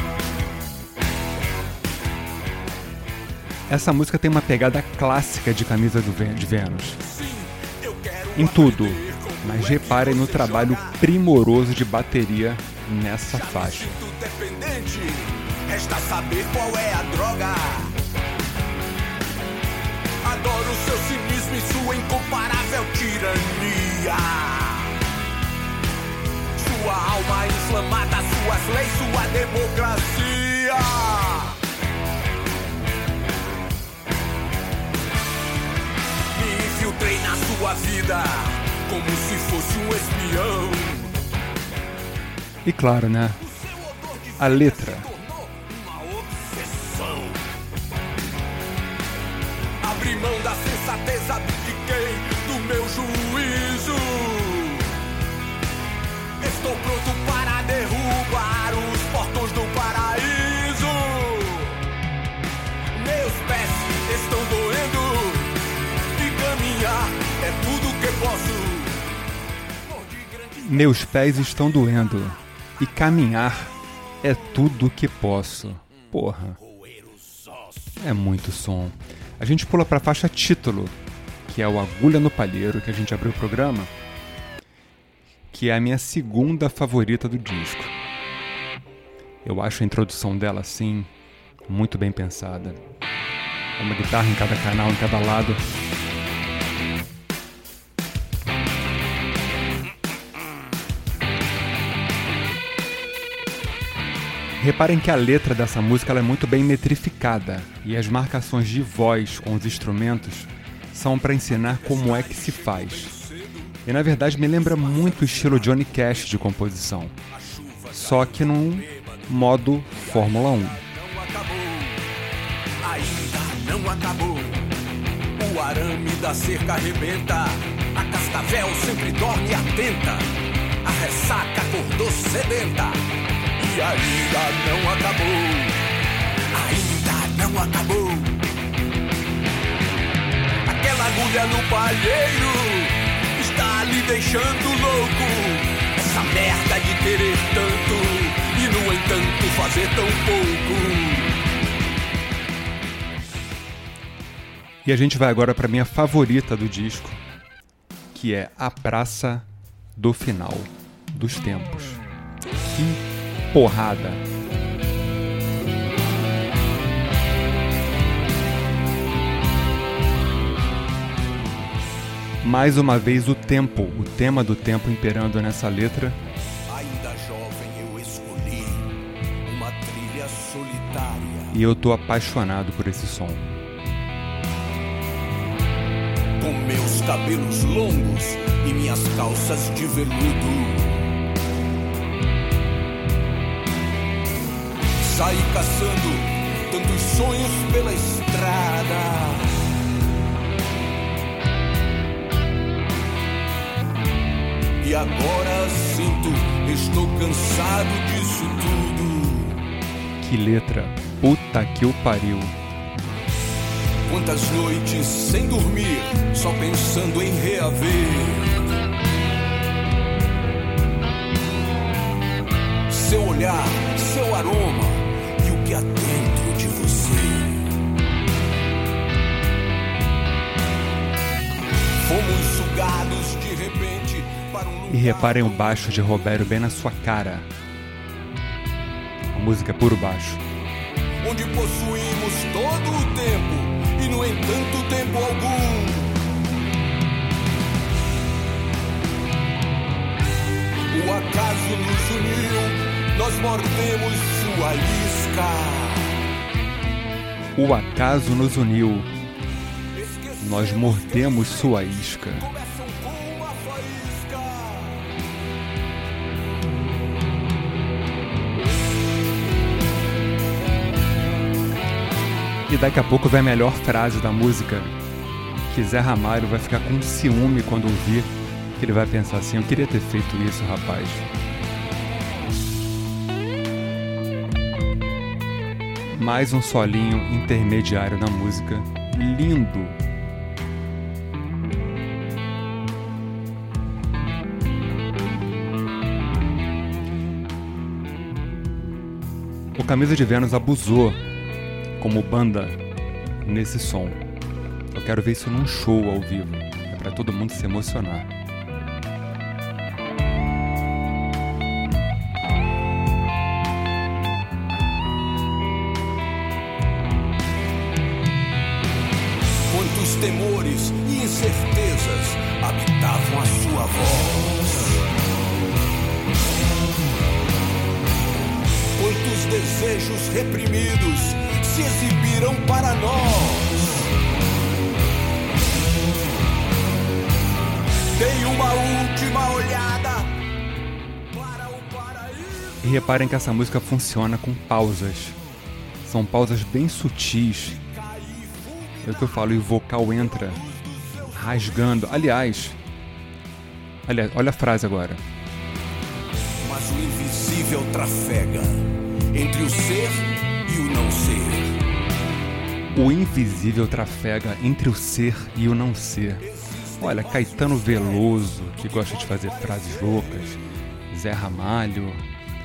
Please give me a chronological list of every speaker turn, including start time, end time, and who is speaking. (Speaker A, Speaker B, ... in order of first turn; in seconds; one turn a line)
Speaker A: 3.7-7.0
Speaker B: 7.0-11.0
Speaker A: 8.3-13.9
Speaker B: 13.3-18.0
Speaker B: 20.2-25.0
Speaker B: 26.5-31.6
Speaker B: 36.3-41.2
Speaker A: 42.6-43.4
Speaker B: 43.4-47.4
Speaker A: 44.4-45.1
Speaker B: 49.8-55.0
Speaker B: 56.4-61.8
Speaker B: 62.9-69.2
Speaker B: 69.8-72.3
Speaker A: 70.6-76.6
Speaker B: 76.6-78.0
Speaker A: 78.0-83.9
Speaker A: 85.5-87.9
Speaker A: 89.4-91.1
Speaker A: 91.7-92.8
Speaker A: 93.8-95.6
Speaker A: 104.6-113.1
Speaker B: 111.5-113.8
Speaker A: 113.8-117.1
Speaker B: 114.4-116.5
Speaker B: 117.3-119.4
Speaker A: 117.9-120.8
Speaker B: 119.9-122.0
Speaker B: 122.8-124.7
Speaker B: 125.4-135.9
Speaker B: 136.5-138.4
Speaker B: 140.6-151.4
Speaker A: 154.8-157.2
Speaker A: 158.1-162.0
Speaker A: 162.6-163.0
Speaker A: 163.5-164.2
Speaker A: 172.4-176.2
Speaker B: 176.7-181.6
Speaker A: 181.5-183.5
Speaker B: 186.4-191.0
Speaker B: 195.0-199.7
Speaker B: 204.8-209.6
Speaker A: 210.2-212.6
Speaker B: 214.0-218.8
Speaker B: 222.9-227.8
Speaker B: 232.0-236.5
Speaker A: 234.9-237.5
Speaker A: 239.3-240.4
Speaker B: 241.2-246.2
Speaker B: 250.9-256.2
Speaker A: 257.6-259.1
Speaker B: 259.9-265.1
Speaker A: 260.4-262.5
Speaker A: 272.7-274.9
Speaker A: 275.7-281.2
Speaker A: 286.1-290.0
Speaker A: 299.8-301.2
Speaker A: 302.0-302.8
Speaker A: 303.4-304.2
Speaker A: 304.9-308.3
Speaker B: 319.7-325.0
Speaker B: 328.9-334.1
Speaker B: 338.1-340.4
Speaker B: 341.3-343.4
Speaker A: 342.8-345.4
Speaker A: 346.0-347.8
Speaker B: 347.7-352.4
Speaker A: 349.0-350.6
Speaker A: 351.3-352.8
Speaker A: 354.1-355.2
Speaker B: 356.6-361.8
Speaker A: 362.9-366.4
Speaker B: 366.4-370.6
Speaker A: 367.0-370.6
Speaker A: 371.1-372.2